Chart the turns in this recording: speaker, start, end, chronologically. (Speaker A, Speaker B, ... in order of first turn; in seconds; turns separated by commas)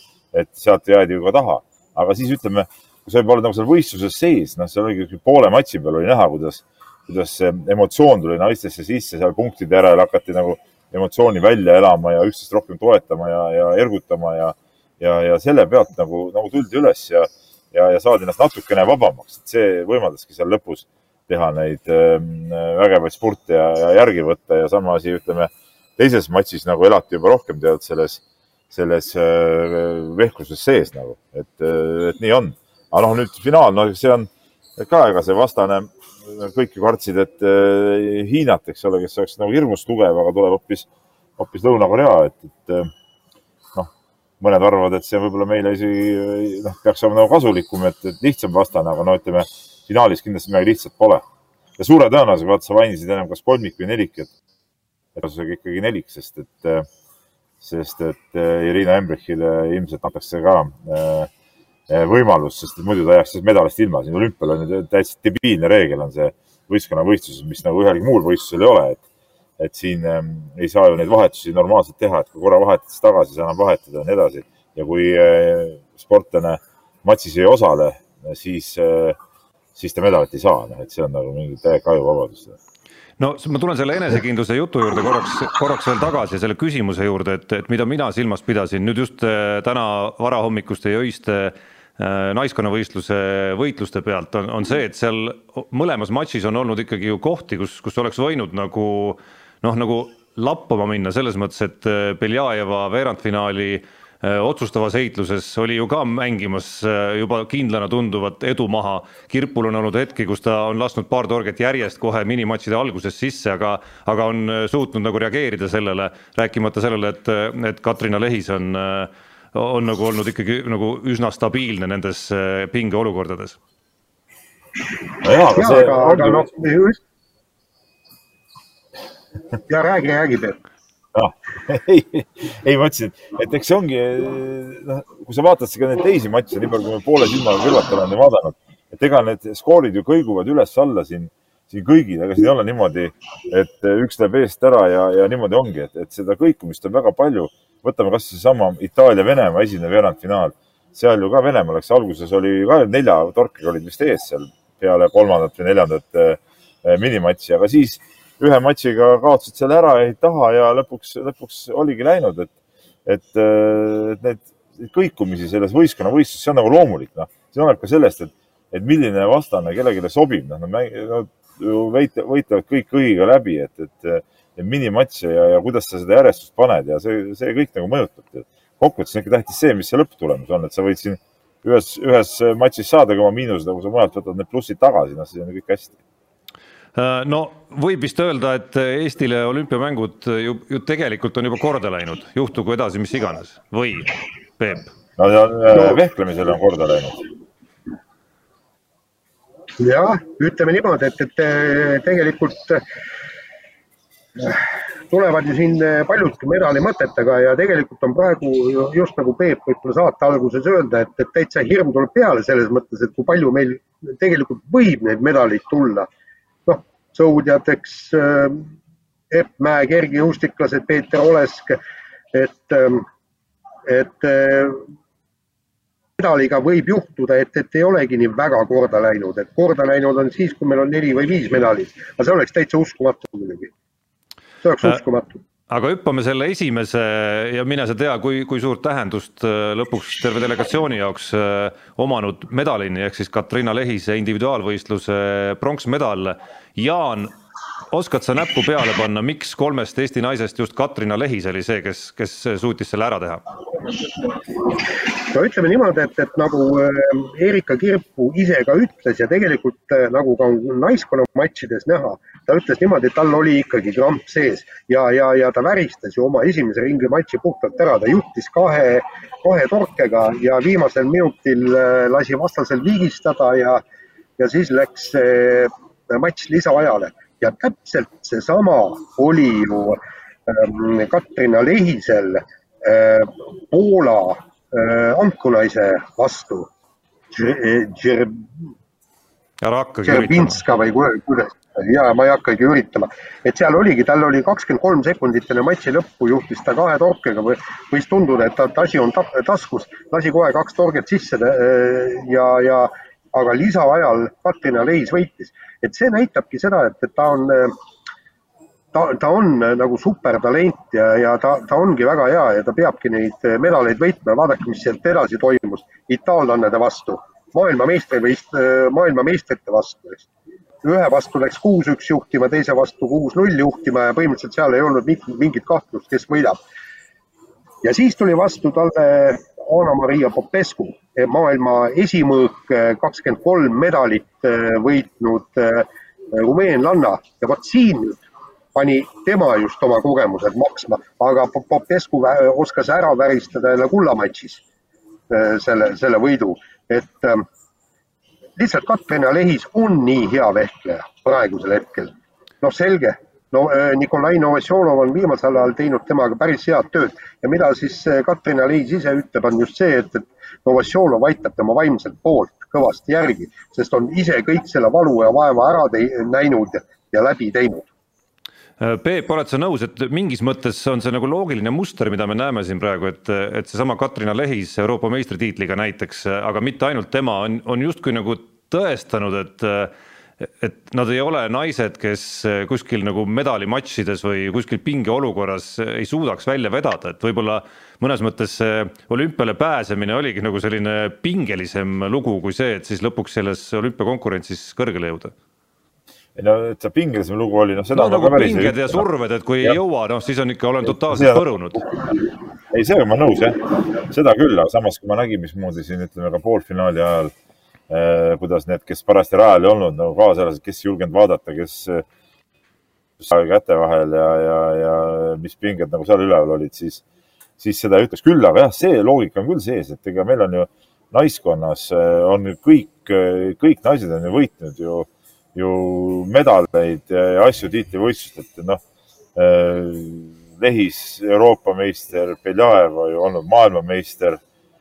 Speaker A: 0.3-42.9, Speaker A: 43.7-51.2, Speaker A: 51.8-54.3, Speaker A: 55.1-56.9, Speaker A: 57.6-61.3, Speaker A: 61.9-69.0, Speaker A: 69.6-79.2, Speaker A: 79.8-82.6, Speaker B: 83.2-123.6, Speaker A: 125.2-126.5, Speaker C: 125.5-127.0, Speaker C: 129.7-130.6, Speaker A: 131.2-162.5, Speaker A: 163.1-186.0, Speaker B: 186.9-194.9, Speaker A: 195.2-197.2, Speaker C: 199.8-202.8, Speaker C: 204.4-216.1, Speaker C: 216.7-218.7, Speaker C: 219.3-221.8, Speaker C: 222.3-223.1, Speaker C: 223.8-224.8, Speaker C: 226.2-233.7, Speaker C: 234.6-235.4, Speaker B: 235.7-247.3, Speaker B: 247.9-253.4, Speaker C: 255.3-273.8, Speaker C: 274.4-286.7, Speaker C: 287.3-288.5, Speaker B: 289.6-290.6, Speaker C: 290.1-307.8, Speaker C: 308.9-320.3, Speaker C: 320.8-326.6, Speaker C: 327.8-338.2, Speaker C: 338.8-344.6, Speaker C: 345.3-347.5, Speaker C: 348.6-367.9, Speaker B: 368.8-395.3, Speaker A: 396.4-399.1, Speaker B: 397.9-401.8, Speaker A: 401.1-401.9, Speaker A: 402.7-407.4, Speaker A: 407.9-412.1, Speaker A: 413.2-417.0, Speaker A: 417.6-428.8, Speaker A: 429.4-434.4